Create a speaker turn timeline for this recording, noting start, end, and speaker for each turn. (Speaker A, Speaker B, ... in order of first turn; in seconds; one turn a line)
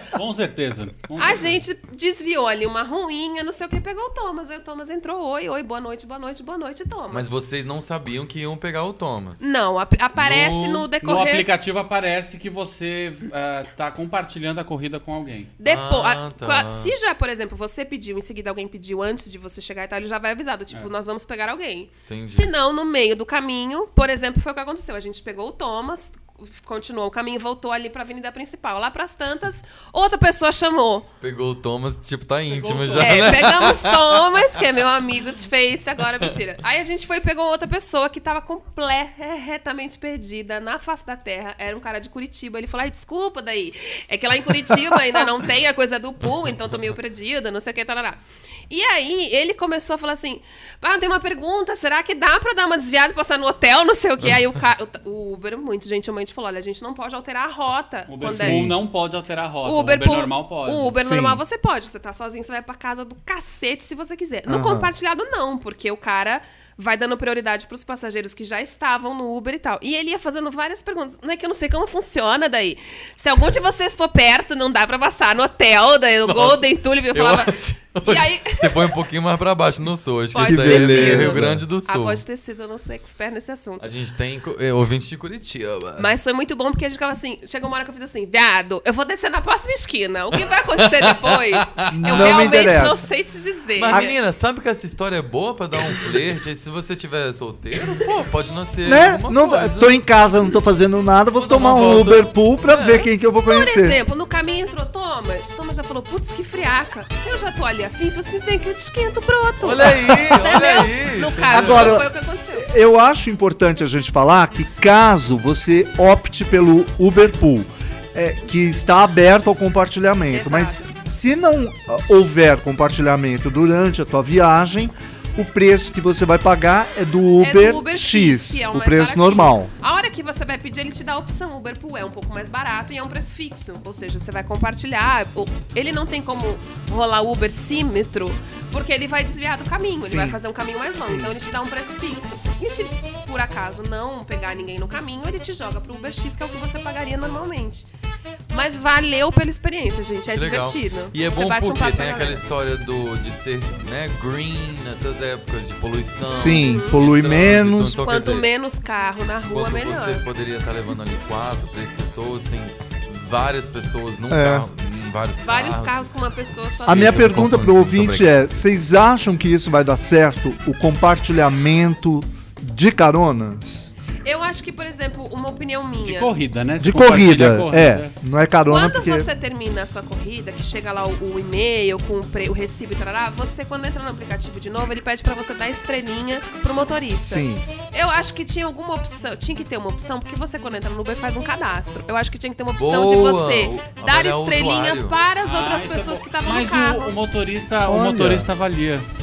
Speaker A: 0.1-1.6
Speaker B: 1.2-7.3
Speaker C: 7.1-9.5
Speaker B: 9.4-11.5
Speaker C: 10.1-10.9
Speaker A: 11.0-15.5
Speaker B: 15.6-31.1
Speaker C: 15.6-16.9
Speaker C: 22.1-22.5
Speaker C: 31.2-34.7
Speaker A: 32.5-33.3
Speaker B: 33.0-58.7
Speaker A: 58.1-61.0
Speaker D: 58.2-58.7
Speaker B: 59.6-78.9
Speaker D: 61.0-61.4
Speaker D: 64.5-64.9
Speaker C: 76.2-82.2
Speaker B: 80.3-83.8
Speaker D: 80.4-81.6
Speaker C: 83.8-86.1
Speaker B: 86.0-94.1
Speaker C: 90.8-92.4
Speaker D: 91.9-93.1
Speaker C: 93.8-100.0
Speaker D: 93.9-94.1
Speaker D: 98.8-104.0
Speaker C: 101.3-103.1
Speaker B: 103.5-112.7
Speaker C: 109.6-112.0
Speaker D: 111.4-129.7
Speaker B: 120.3-120.9
Speaker B: 127.4-147.9
Speaker D: 140.0-140.4
Speaker D: 141.0-141.3
Speaker B: 148.5-152.4
Speaker C: 150.3-158.5
Speaker D: 156.2-158.0
Speaker B: 156.6-157.0
Speaker B: 157.9-160.2
Speaker C: 159.4-166.2
Speaker D: 164.3-164.7
Speaker B: 165.4-167.6
Speaker C: 166.8-168.3
Speaker D: 166.8-173.9
Speaker B: 174.2-176.3
Speaker A: 176.0-178.1
Speaker D: 176.8-179.3
Speaker B: 178.7-197.1
Speaker D: 187.2-187.6
Speaker C: 192.7-195.2
Speaker A: 195.4-199.1
Speaker D: 197.9-198.5